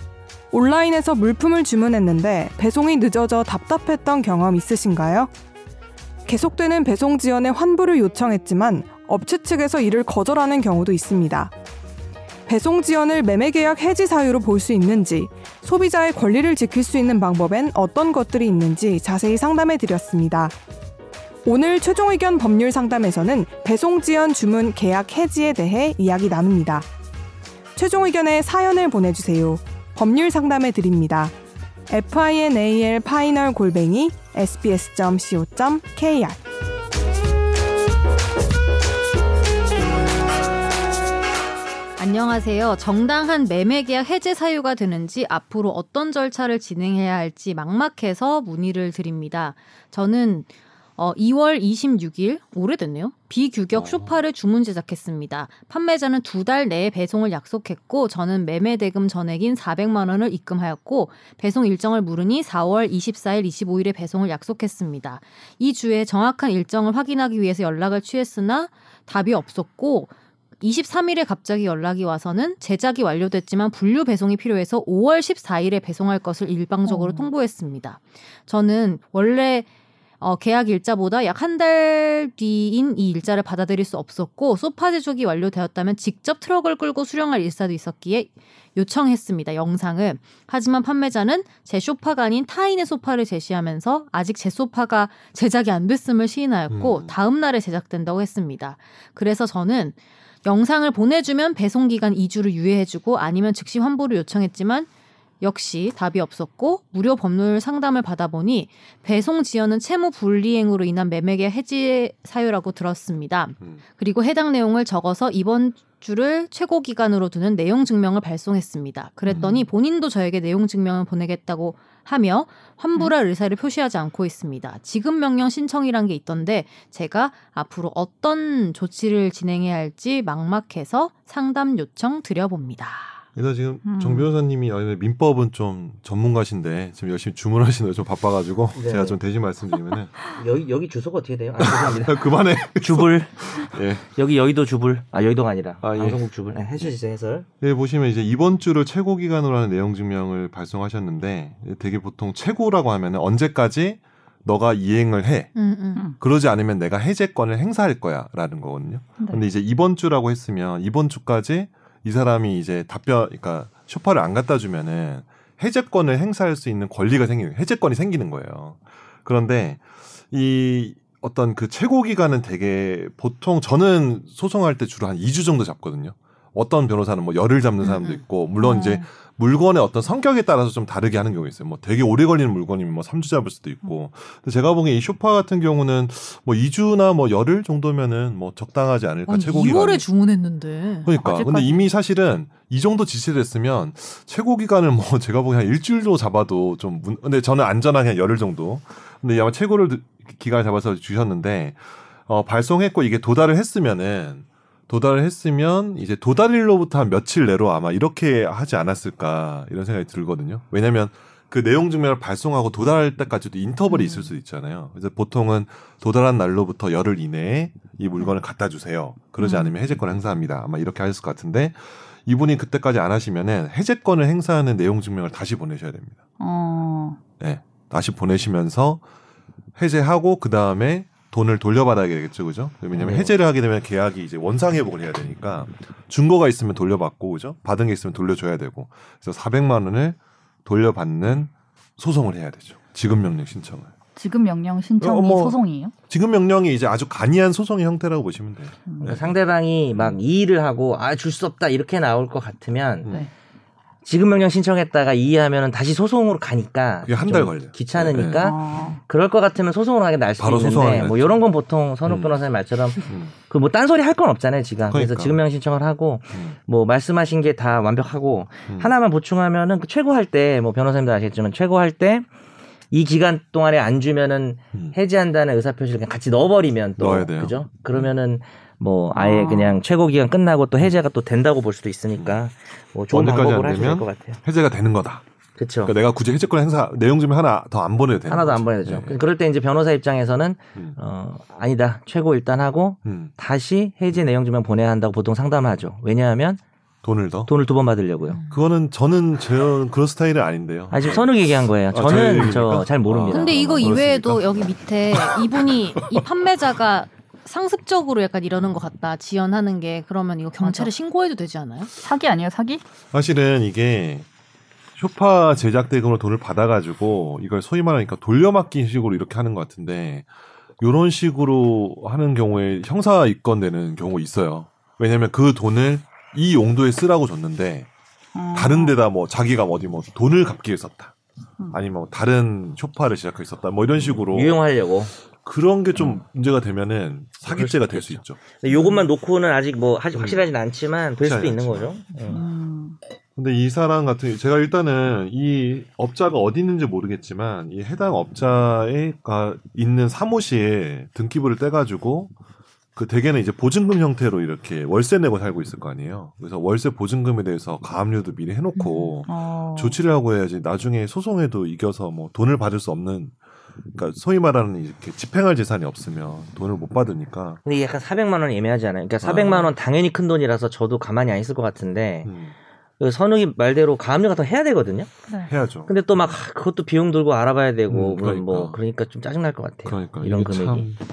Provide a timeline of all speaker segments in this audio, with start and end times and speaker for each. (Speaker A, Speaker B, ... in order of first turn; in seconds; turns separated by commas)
Speaker A: 0.5-5.3, Speaker A: 6.2-11.5, Speaker A: 12.5-20.5, Speaker A: 21.4-26.9, Speaker A: 27.8-31.3, Speaker A: 31.9-36.4, Speaker B: 42.0-79.7, Speaker C: 53.7-54.2, Speaker D: 76.8-77.3, Speaker B: 80.2-104.9, Speaker C: 96.7-97.2, Speaker B: 105.4-133.2, Speaker C: 119.3-119.7, Speaker C: 133.3-140.1, Speaker D: 133.8-134.3, Speaker E: 138.7-139.2, Speaker E: 140.3-143.3, Speaker C: 141.6-144.1, Speaker E: 144.0-147.4, Speaker C: 145.8-146.2, Speaker C: 147.6-155.6, Speaker B: 155.5-156.1, Speaker C: 156.2-190.0, Speaker B: 177.8-178.2, Speaker D: 178.6-179.0, Speaker B: 189.3-191.1, Speaker C: 191.0-226.2, Speaker D: 191.1-191.9, Speaker D: 213.9-214.3, Speaker D: 219.4-219.7, Speaker D: 226.4-227.2, Speaker C: 227.4-229.0, Speaker C: 229.8-243.9, Speaker E: 232.9-233.4, Speaker D: 244.2-245.9, Speaker C: 245.0-249.3, Speaker D: 248.9-249.3, Speaker E: 249.0-253.1, Speaker C: 249.9-250.2, Speaker C: 253.0-253.3, Speaker E: 254.0-272.3, Speaker C: 257.0-258.5, Speaker D: 258.1-259.0, Speaker C: 260.4-261.4, Speaker C: 262.0-262.4, Speaker C: 263.0-263.3, Speaker C: 264.9-265.4, Speaker C: 268.7-268.9, Speaker E: 272.9-284.4, Speaker C: 277.0-278.1, Speaker D: 279.1-279.8, Speaker C: 282.1-282.5, Speaker C: 283.1-285.2, Speaker E: 285.6-285.9, Speaker C: 285.8-289.2, Speaker E: 288.3-296.6, Speaker C: 293.0-293.3, Speaker C: 297.0-297.5, Speaker E: 297.4-298.4, Speaker B: 298.3-298.6, Speaker C: 298.4-305.4, Speaker E: 300.9-304.1, Speaker B: 303.3-311.9, Speaker C: 305.9-306.2, Speaker D: 310.6-310.9, Speaker D: 312.0-312.8, Speaker C: 313.1-314.3, Speaker C: 315.0-320.3, Speaker C: 320.8-327.9, Speaker D: 328.3-328.9, Speaker C: 328.5-331.1, Speaker C: 331.7-334.6, Speaker E: 334.0-335.1, Speaker C: 335.3-339.1, Speaker E: 335.9-336.2, Speaker E: 337.4-342.4, Speaker C: 340.1-340.5, Speaker C: 341.2-342.0, Speaker D: 342.3-343.0, Speaker C: 343.4-352.3, Speaker C: 352.9-363.4, Speaker D: 358.7-360.0, Speaker C: 363.9-367.6, Speaker E: 367.6-372.3, Speaker C: 369.2-369.7, Speaker C: 372.2-372.6, Speaker E: 373.0-375.1, Speaker C: 375.4-376.4, Speaker E: 375.9-380.9, Speaker C: 377.9-378.8, Speaker C: 379.8-381.0